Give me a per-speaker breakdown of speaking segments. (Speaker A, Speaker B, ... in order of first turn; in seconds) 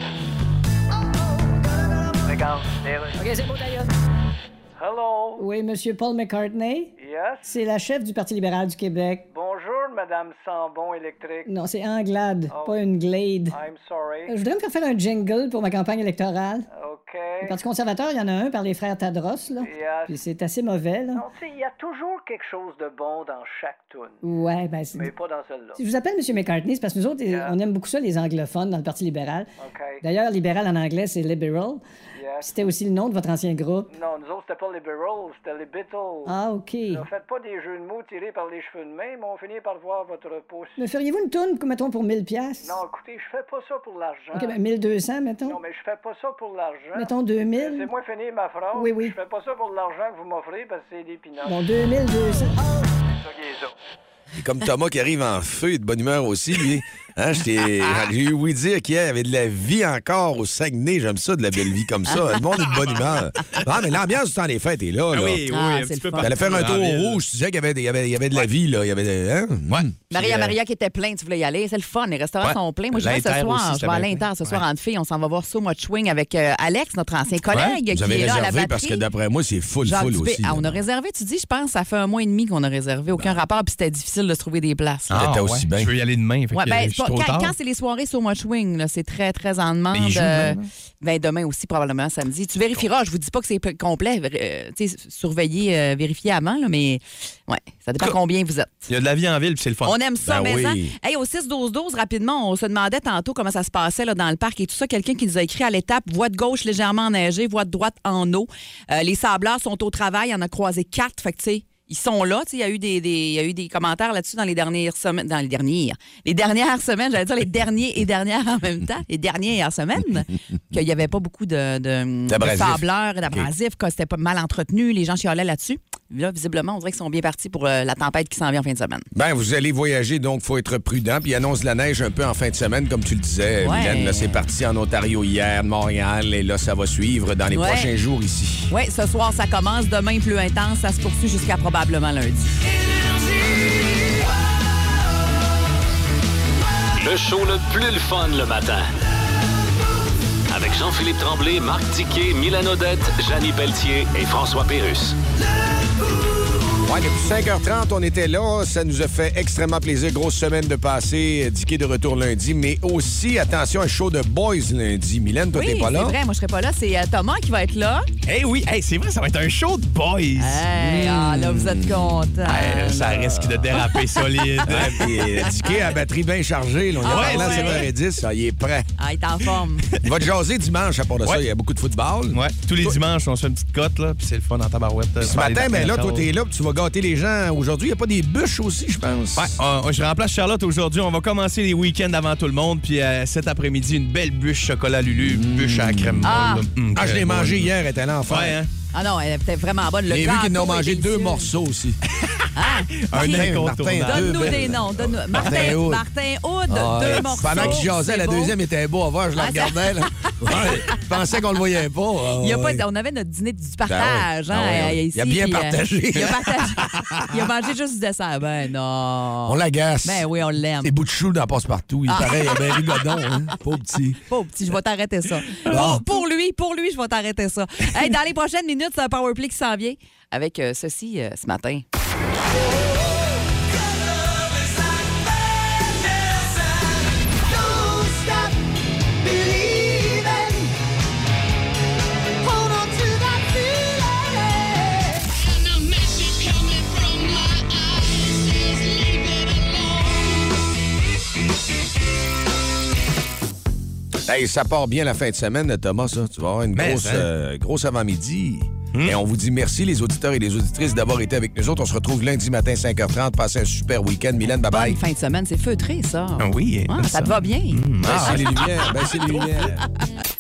Speaker A: 2.3-3.2, 4.8-5.4, 7.0-7.5, 9.3-11.5, 12.5-12.8, 13.5-14.3, 16.7-17.6, 19.6-20.2, 21.1-24.2, 24.9-25.8, 27.3-27.6, 29.6-30.0, 32.2-32.5, 33.9-36.3, 36.9-40.8, 42.6-44.6, 45.5-51.6, 53.1-53.7
Speaker B: 3.2-3.9, 5.4-6.9, 7.4-9.3, 11.5-13.6, 14.3-16.7, 17.4-21.2, 24.2-25.1, 25.8-29.5, 30.0-31.8, 32.4-33.9, 36.3-37.0, 40.8-42.8, 44.3-45.6, 47.0-47.9, 48.7-49.2, 51.5-52.5
Speaker C: 54.4-65.5, 66.2-70.3, 77.9-80.8, 85.1-85.9, 100.2-100.9, 122.3-123.5, 129.1-138.7, 156.8-166.2, 170.8-172.1, 174.7-178.9, 180.0-183.0, 185.2-189.6, 195.2-196.4, 196.9-198.6, 200.1-202.0, 203.1-206.0, 206.7-212.8, 213.9-217.4, 219.5-220.3, 220.8-224.2, 225.6-226.1, 254.3-265.0, 268.0-269.8
Speaker D: 65.1-67.2, 69.7-70.5, 73.0-74.6, 85.1-87.5, 89.9-90.6, 98.9-100.0, 168.3-170.7, 172.5-175.1, 177.1-177.8, 182.3-186.3, 189.4-197.7, 198.3-198.7, 203.1-204.7, 207.4-207.8, 256.8-257.3, 266.4-268.4
Speaker E: 65.5-66.7, 70.1-79.0, 79.8-85.2, 86.5-98.9, 99.8-129.1, 133.6-134.4, 137.5-137.9, 138.7-142.5, 165.5-168.1, 170.4-173.7, 174.7-175.8, 177.0-177.9, 179.0-179.8, 196.2-196.7, 198.9-201.5, 202.6-208.6, 209.4-211.0, 212.4-220.9, 222.1-223.5, 224.3-231.8, 264.7-267.8
Speaker F: 147.0-148.9, 150.5-155.2